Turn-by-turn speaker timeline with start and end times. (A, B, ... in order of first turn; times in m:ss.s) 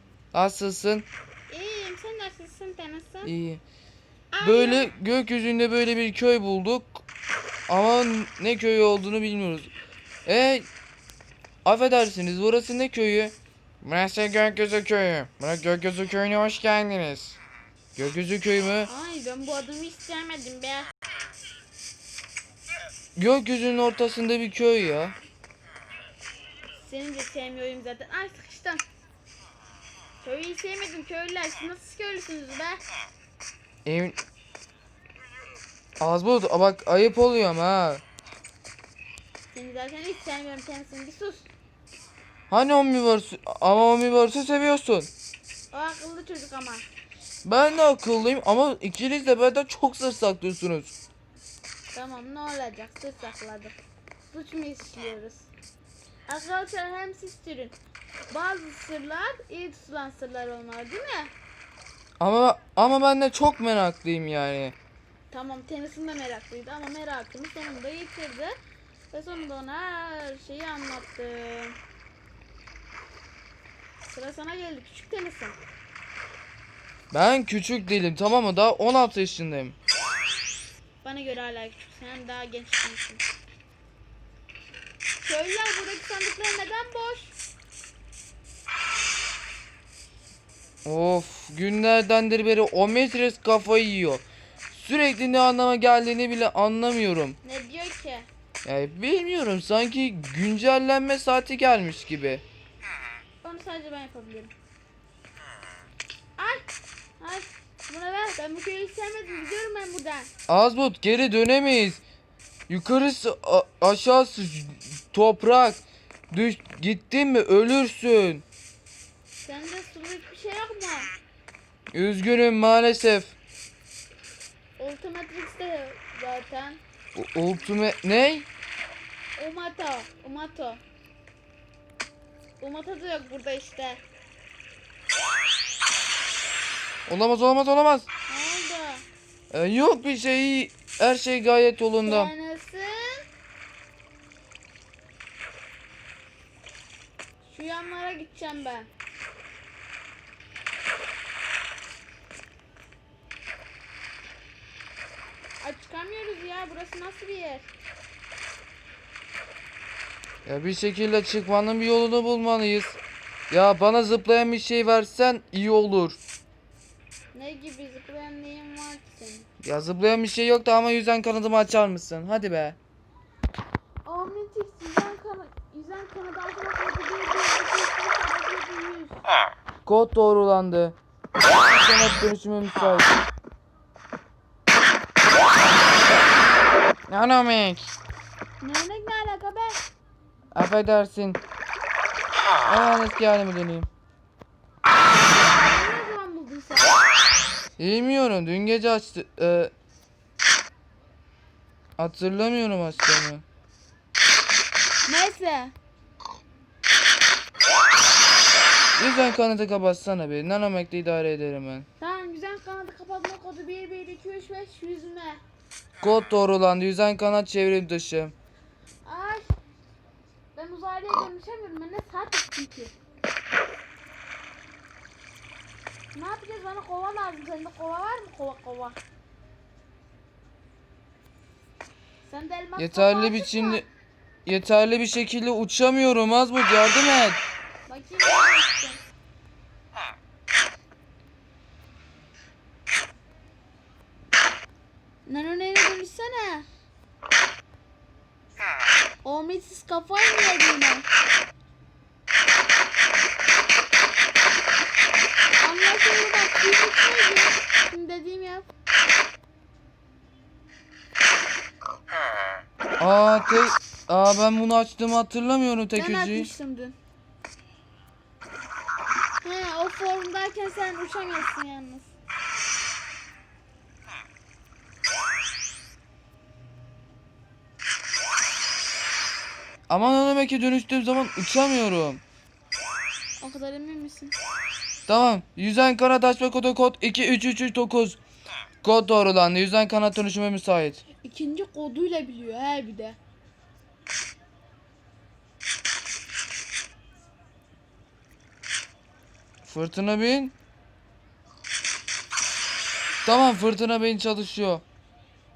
0:00.3-0:01.1 A
0:01.5-0:03.3 B
0:03.2-0:03.6 A
0:04.3-0:04.9 B
0:04.4-0:07.0 A
0:07.7-0:09.7 A
0:10.2-0:10.7 A
0:11.6-0:17.4 A
0:18.0-0:18.9 A
0:18.8-0:20.9 B
0:23.2-0:25.2 A
0:26.8-0:28.8 B
0:30.2-0:32.8 B
0:33.8-0:34.2 A
0:36.0-0:38.0 A
0:39.5-0:41.5 B
0:42.5-0:45.1 A
0:45.7-0:46.8 B
0:47.4-0:50.9 A
0:51.9-0:53.8 B
0:54.3-0:55.5 B
0:56.3-0:57.8 B
0:58.3-1:01.3 B
1:02.2-1:04.8 A
1:05.3-1:08.6 B
1:09.1-1:11.8 B
1:14.1-1:15.6 B
1:17.1-1:19.7 A
1:21.0-1:23.2 B
1:25.2-1:27.3 B
1:30.8-1:37.4 A
1:37.4-1:38.3 B
1:38.6-1:42.4 A
1:43.4-1:44.5 B
1:46.4-1:46.6 B
1:47.2-1:50.3 B
1:50.5-1:52.0 A
1:52.7-1:58.4 A
1:59.4-2:01.1 B
2:01.9-2:03.3 A
2:04.8-2:06.8 B
2:07.1-2:08.5 A
2:09.4-2:10.8 B
2:12.6-2:14.0 B
2:17.1-2:18.0 A
2:18.3-2:19.0 B
2:19.5-2:22.3 A
2:22.0-2:23.2 B
2:27.4-2:28.9 B
2:35.6-2:37.7 B
2:40.4-2:43.0 A
2:43.5-2:46.2 A
2:47.3-2:49.4 B
2:49.6-2:52.8 A
2:54.0-2:59.2 B
2:59.8-3:01.0 A
3:01.6-3:03.2 A
3:07.1-3:07.9 A
3:08.6-3:09.8 B
3:10.5-3:11.4 A
3:12.6-3:13.9 A
3:15.3-3:17.0 B
3:17.8-3:19.7 A
3:22.0-3:23.4 A
3:25.0-3:25.7 B
3:28.9-3:31.9 A
3:32.0-3:35.4 B
3:36.0-3:38.3 A
3:39.0-3:39.5 B
3:40.5-3:42.9 B
3:46.1-3:49.0 B
3:52.2-3:53.8 B
3:52.8-3:53.8 A
3:54.4-3:57.4 A
3:57.9-3:59.0 B
4:05.2-4:06.6 B
4:09.2-4:11.1 B
4:15.6-4:18.7 B
4:23.0-4:26.5 A
4:25.9-4:27.0 B
4:29.4-4:32.1 B
4:39.9-4:42.2 A
4:43.4-4:44.3 B
4:45.1-4:48.2 A
4:48.8-4:51.0 A
4:51.2-4:53.2 B
4:59.6-5:00.5 A
5:03.2-5:04.8 A